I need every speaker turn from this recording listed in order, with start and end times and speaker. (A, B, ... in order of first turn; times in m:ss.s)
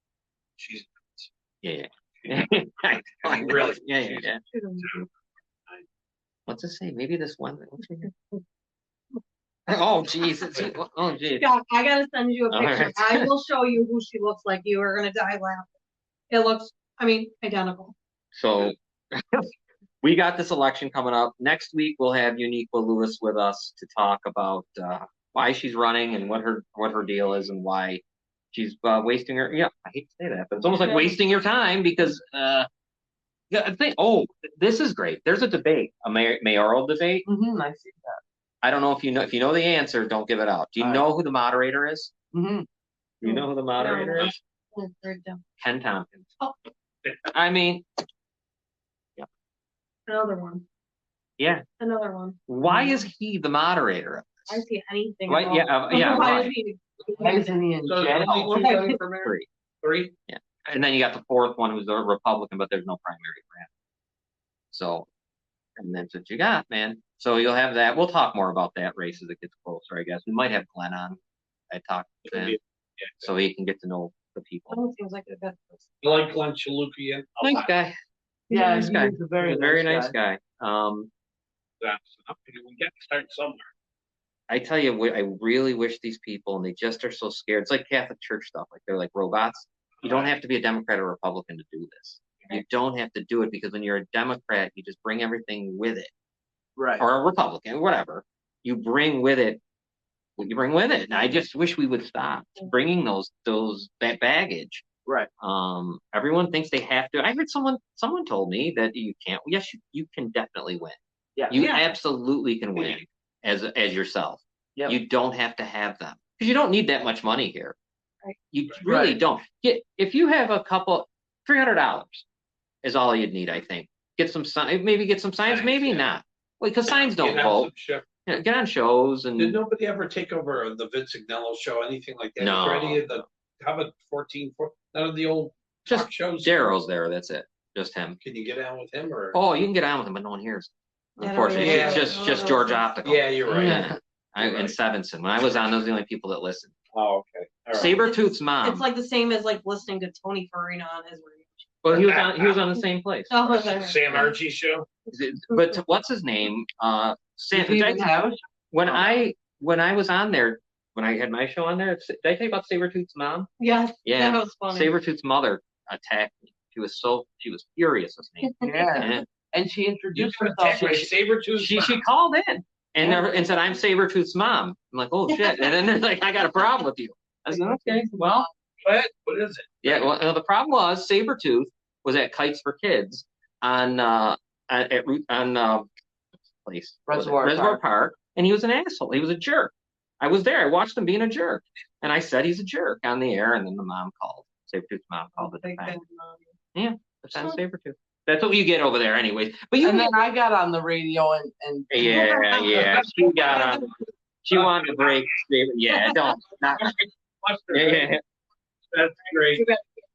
0:00.6-0:01.3 A
0:01.6-0:04.4 B
0:02.2-0:02.4 A
0:03.0-0:05.1 A
0:04.4-0:04.9 C
0:06.5-0:08.1 B
0:09.7-0:11.5 B
0:11.4-0:15.8 C
0:12.5-0:13.3 B
0:16.3-0:18.0 C
0:18.3-0:19.5 B
0:20.0-0:32.7 B
0:30.6-0:31.2 C
0:33.5-0:37.3 B
0:37.2-0:38.2 D
0:38.6-0:42.1 B
0:40.8-0:41.0 D
0:42.3-0:42.7 D
0:43.2-0:44.4 B
0:43.2-0:45.4 C
0:45.6-0:46.3 B
0:47.3-0:47.8 B
0:50.1-0:50.6 C
0:51.4-0:51.6 B
0:51.8-0:53.0 C
0:52.5-0:54.6 B
0:54.5-0:57.6 C
0:55.3-0:56.5 B
0:57.2-0:58.6 D
0:57.8-0:59.1 A
0:58.5-0:59.3 C
0:59.8-1:00.1 A
1:00.3-1:03.7 B
1:04.7-1:05.1 B
1:05.8-1:11.2 B
1:11.7-1:12.6 B
1:12.2-1:13.3 A
1:13.2-1:14.8 B
1:14.7-1:16.2 C
1:16.0-1:17.8 A
1:17.4-1:18.0 B
1:18.5-1:20.2 D
1:18.5-1:18.9 C
1:18.5-1:21.1 B
1:21.8-1:23.7 A
1:24.5-1:36.1 B
1:30.0-1:30.3 A
1:36.8-1:37.1 D
1:37.0-1:39.6 B
1:40.4-1:44.8 B
1:45.4-1:51.0 B
1:51.5-1:57.8 B
1:51.5-1:51.9 C
1:58.5-2:02.2 B
1:58.8-1:59.2 D
2:02.8-2:07.7 B
2:05.4-2:06.1 A
2:06.9-2:08.1 A
2:08.2-2:09.6 B
2:09.4-2:16.7 A
2:12.4-2:13.2 B
2:15.9-2:18.2 B
2:18.2-2:19.4 A
2:19.3-2:26.7 B
2:21.2-2:22.9 C
2:21.6-2:22.1 A
2:23.0-2:24.8 A
2:23.5-2:24.0 D
2:26.9-2:27.9 A
2:27.7-2:28.8 B
2:27.8-2:31.8 C
2:31.8-2:33.3 B
2:31.9-2:32.7 A
2:33.3-2:34.2 C
2:33.4-2:34.9 A
2:35.1-2:38.2 B
2:37.5-2:39.1 D
2:38.7-2:43.5 B
2:43.6-2:44.9 C
2:44.0-2:49.2 B
2:48.4-2:49.2 C
2:48.6-2:51.1 D
2:50.1-2:52.0 A
2:50.9-2:58.4 B
2:55.3-2:55.7 C
2:57.5-2:58.5 D
2:58.8-3:00.1 A
2:59.8-3:05.9 B
3:06.6-3:16.0 B
3:07.1-3:07.8 D
3:15.3-3:16.6 C
3:16.8-3:20.1 B
3:17.3-3:17.6 C
3:19.8-3:21.9 D
3:21.9-3:23.9 B
3:22.0-3:23.7 A
3:24.4-3:27.0 B
3:24.5-3:25.2 A
3:26.8-3:28.1 A
3:27.7-3:28.2 B
3:28.9-3:29.6 A
3:29.5-3:30.0 C